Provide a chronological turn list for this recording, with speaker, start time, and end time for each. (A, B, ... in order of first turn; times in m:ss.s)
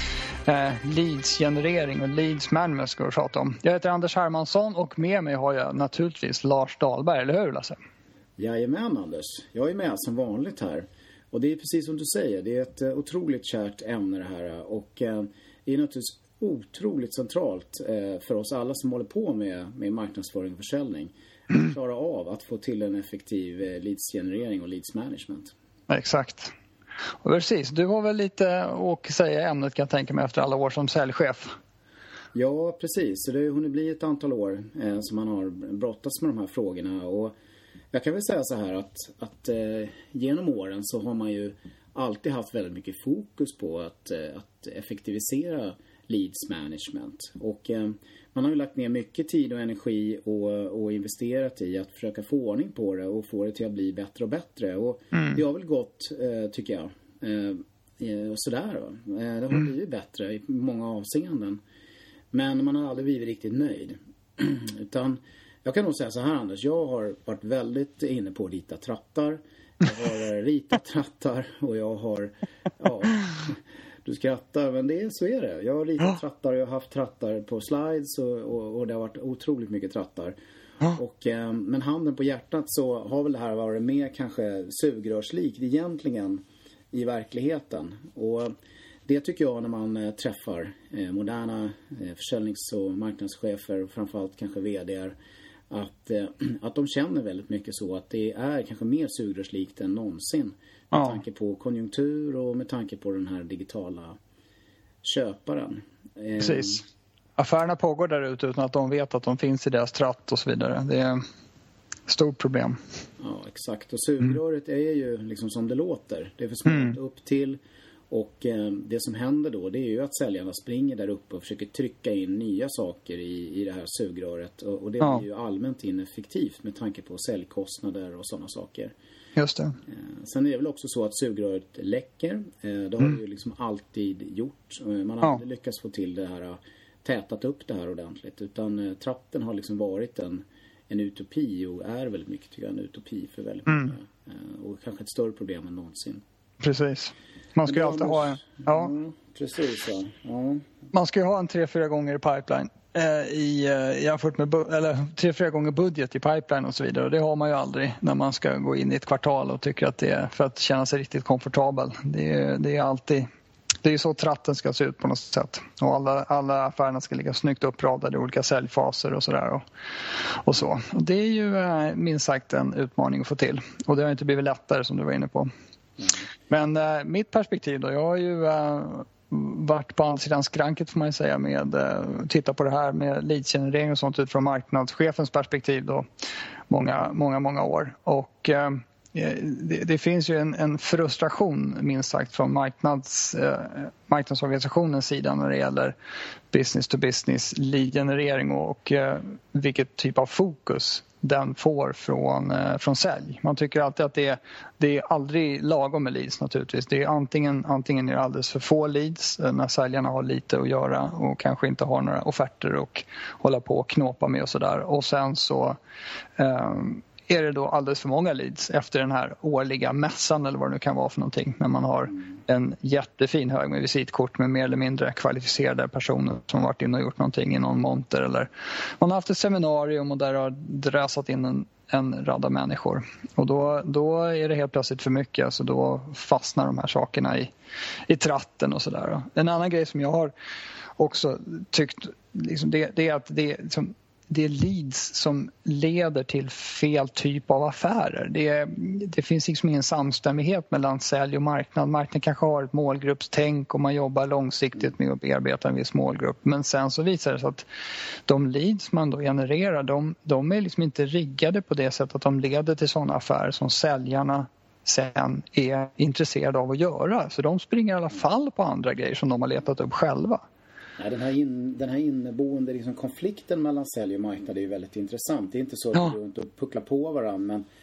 0:00.5-0:07.8 A
0:08.4-0:25.5 B
0:25.9-0:26.5 A
0:27.2-0:31.5 A
0:32.3-0:37.3 B
0:37.9-1:01.6 B
0:55.1-0:55.4 A
1:02.3-1:28.5 B
1:29.1-1:35.2 B
1:35.7-1:44.2 B
1:40.9-1:41.2 A
1:45.0-1:46.8 B
1:46.4-1:46.8 A
1:47.4-1:51.2 A
1:52.1-1:52.8 A
1:53.2-1:57.6 B
1:56.7-1:57.0 A
1:58.1-2:08.9 B
2:09.4-2:09.8 A
2:09.9-2:26.2 B
2:26.6-2:28.9 A
2:27.6-2:30.7 B
2:30.9-2:43.3 A
2:43.8-2:49.6 A
2:50.4-2:55.5 A
2:56.5-3:06.1 A
3:06.7-3:16.0 A
3:16.5-3:35.8 A
3:36.4-3:57.5 A
3:58.1-4:00.3 A
4:01.0-4:17.7 A
4:18.3-4:30.4 A
4:31.0-4:37.6 B